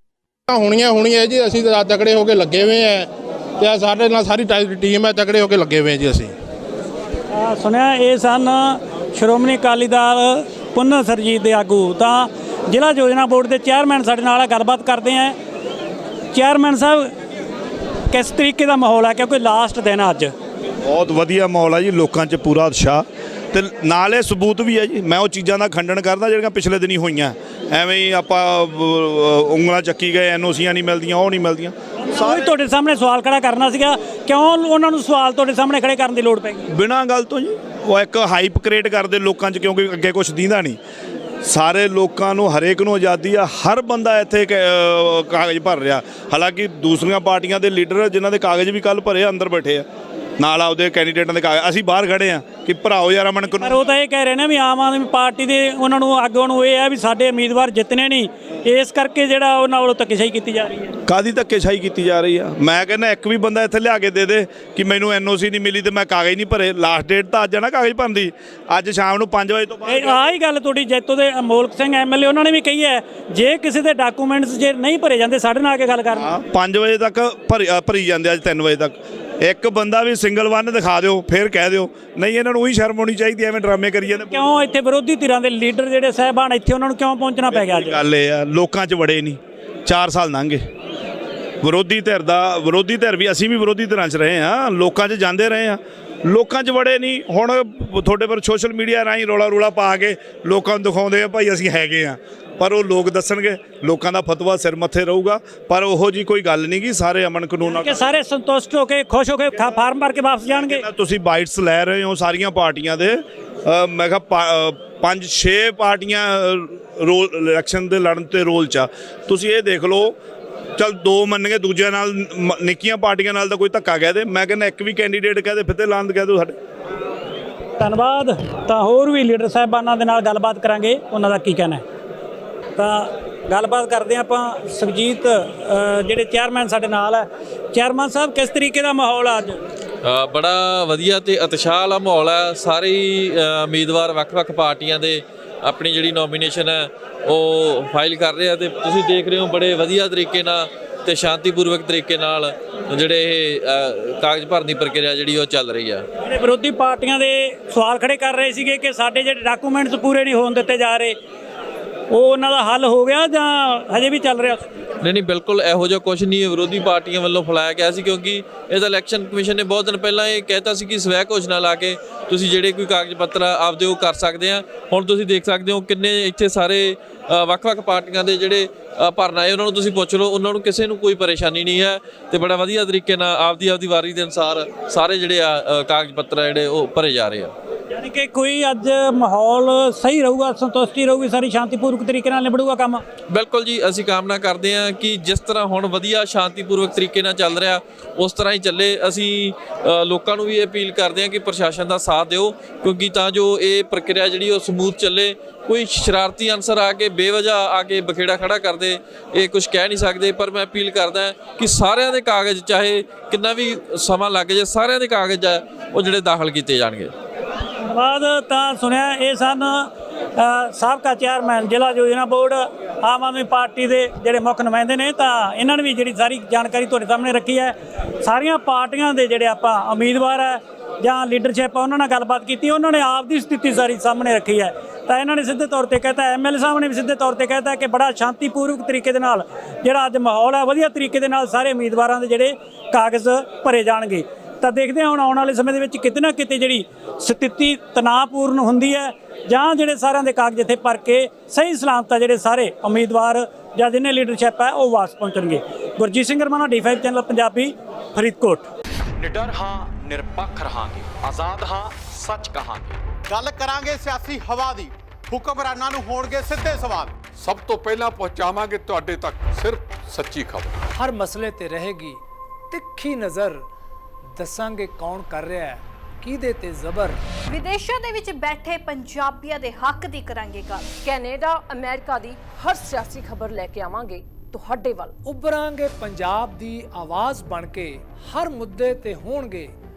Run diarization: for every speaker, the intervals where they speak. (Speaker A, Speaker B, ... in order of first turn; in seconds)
Speaker A: 0.5-6.3
Speaker B: 7.3-15.4, 16.3-17.1, 18.1-20.3, 32.0-36.7, 53.6-60.9, 69.9-76.3, 84.3-88.0, 107.6-110.8, 127.8-131.8, 132.8-139.6, 156.2-161.2, 162.1-164.9, 187.9-193.1, 217.8-258.7
Speaker C: 20.8-32.5, 36.7-40.8, 41.5-49.9, 50.4-53.8, 61.1-70.2, 76.1-84.3, 87.5-90.6, 91.6-108.1, 110.5-120.2, 120.8-126.5
Speaker D: 140.0-156.0, 165.0-187.5, 193.3-217.1
Speaker E: 259.2-263.0
Speaker F: 263.3-267.1
Speaker G: 267.4-270.7
Speaker H: 270.9-273.6, 274.4-277.2, 285.2-289.7
Speaker I: 277.5-281.0
Speaker J: 281.0-285.1